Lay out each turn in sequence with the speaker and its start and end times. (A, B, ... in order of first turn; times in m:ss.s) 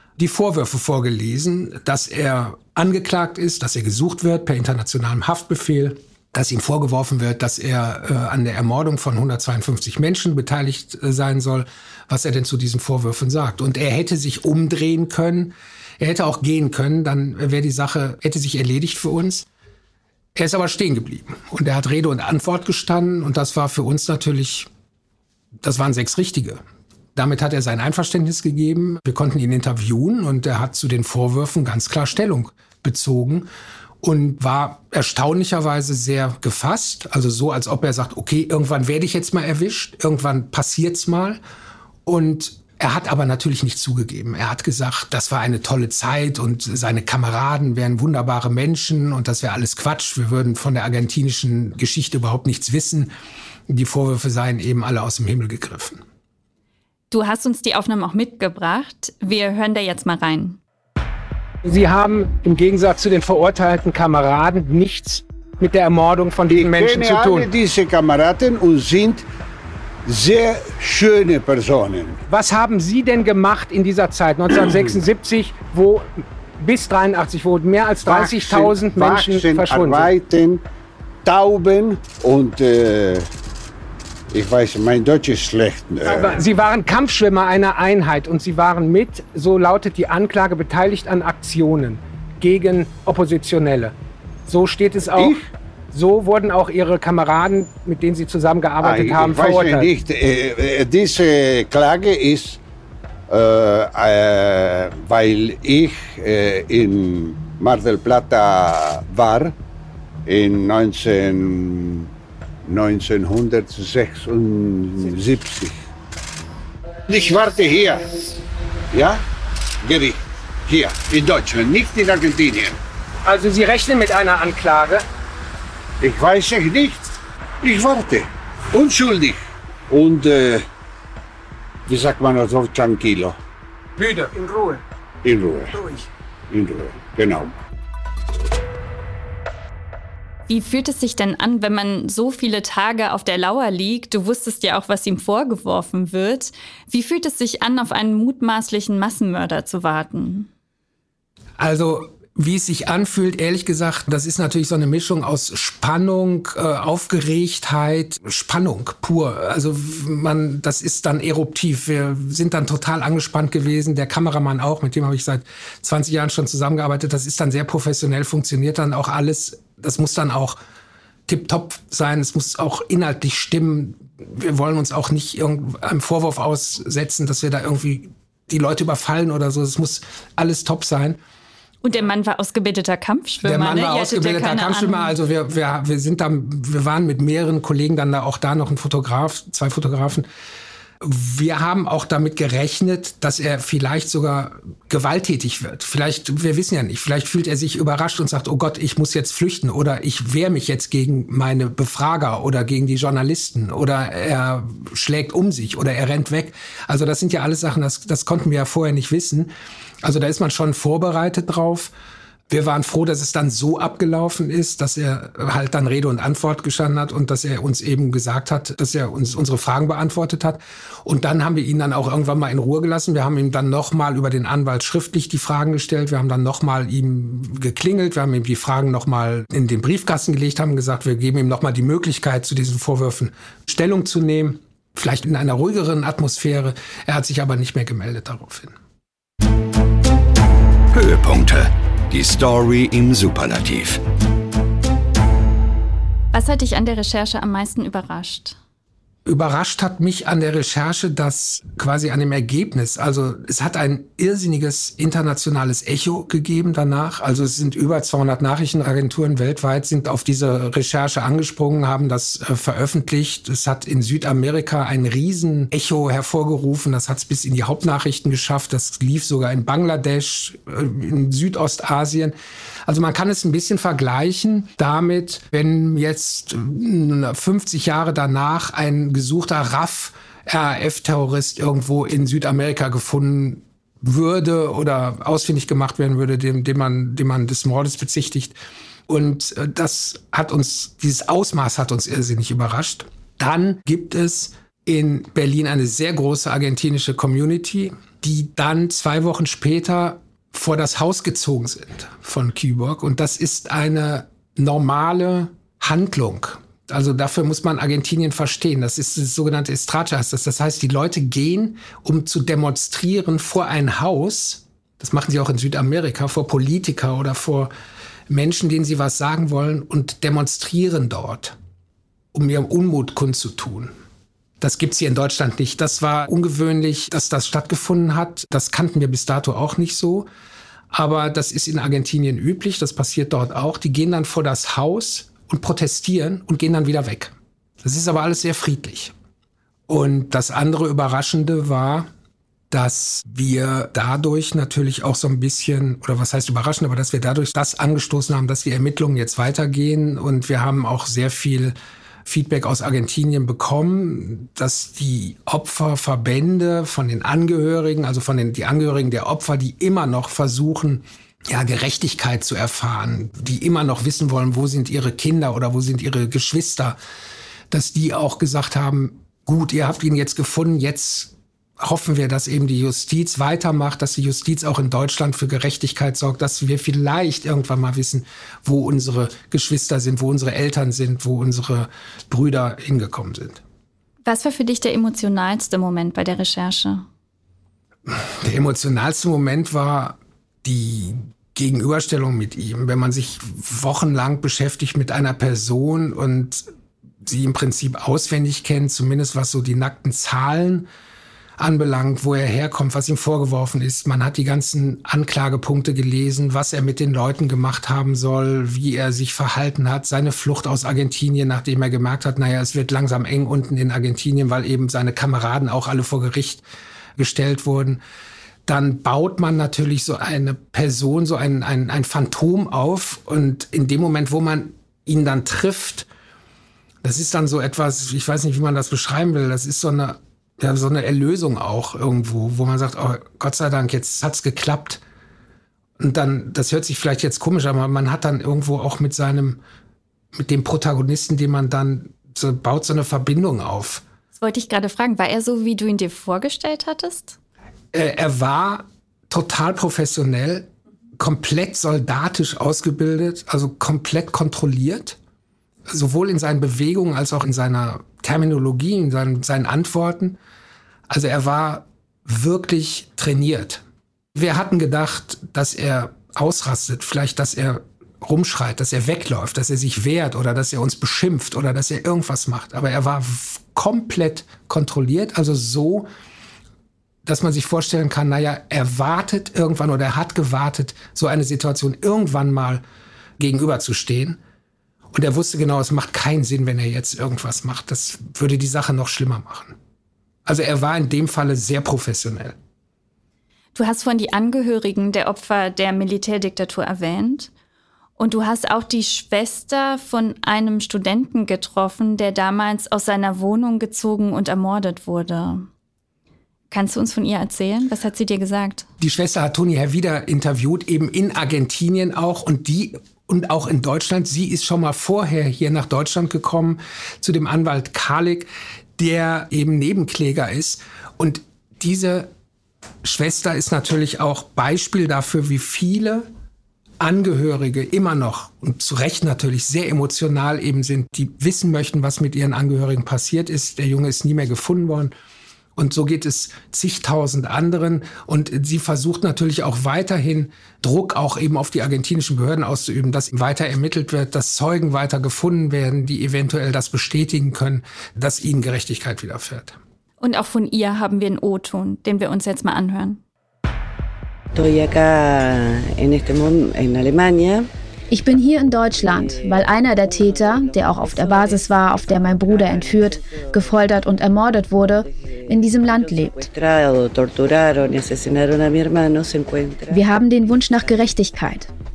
0:00.2-0:19.4 A
0:20.3-0:24.7 A
0:25.6-0:26.6 A
0:27.1-0:33.5 A
0:34.0-0:41.4 A
0:42.0-0:53.1 A
0:53.7-0:56.0 A
0:57.1-1:00.6 B
1:01.6-1:07.5 A
1:06.5-1:09.2 C
1:10.0-1:12.2 C
1:12.3-1:20.1 A
1:18.0-1:20.6 C
1:21.2-1:23.3 C
1:24.3-1:26.4 C
1:26.0-1:33.9 A
1:34.5-1:39.9 A
1:35.1-1:35.4 C
1:38.8-1:42.6 C
1:43.3-1:49.5 C
1:50.2-1:52.1 C
1:52.6-1:55.7 C
1:57.1-1:58.1 C
1:58.9-1:59.2 C
1:59.8-2:02.8 C
2:03.2-2:05.0 A
2:06.0-2:07.1 C
2:07.6-2:09.4 C
2:09.9-2:10.6 C
2:11.9-2:13.4 C
2:14.0-2:14.8 A
2:15.2-2:15.8 C
2:16.5-2:17.5 C
2:20.5-2:30.5 B
2:31.6-2:50.6 A
2:51.3-3:01.2 A
3:01.8-3:05.1 B
3:03.4-3:10.3 A
3:11.0-3:29.5 A
3:30.0-3:31.9 A
3:32.5-3:58.7 A
4:00.9-4:04.0 D
4:06.3-4:08.6 B
4:09.2-4:32.3 A
4:32.8-4:48.6 A
4:49.1-5:17.7 A
5:18.3-5:21.6 A
5:22.3-5:23.9 A
5:24.6-5:30.3 A
5:30.9-5:39.1 A
5:39.9-5:42.1 A
5:42.7-5:51.7 A
5:52.2-6:07.0 A
6:07.7-6:23.6 A
6:24.2-6:27.0 B
6:28.1-6:36.6 A
6:37.2-6:40.9 A
6:41.6-6:56.6 A
6:57.2-6:58.0 A
6:58.6-7:06.1 A
7:07.0-7:15.0 A
7:16.0-7:19.6 A
7:20.3-7:24.0 A
7:24.4-7:27.4 B
7:27.9-7:35.2 A
7:35.9-7:40.4 A
7:41.1-7:43.8 A
7:44.3-7:56.1 A
7:57.2-8:02.8 A
8:03.4-8:04.4 A
8:05.1-8:09.8 A
8:10.4-8:12.6 A
8:13.7-8:17.5 B
8:18.2-8:25.7 B
8:26.7-8:28.9 B
8:29.0-8:42.3 A
8:43.0-8:46.3 A
8:47.0-8:55.1 A
8:55.8-9:09.8 A
9:10.2-9:13.2 B
9:14.5-9:17.7 E
9:18.1-9:26.5 F
9:18.4-9:24.2 E
9:24.8-9:30.1 E
9:29.9-9:31.7 F
9:30.7-9:31.1 E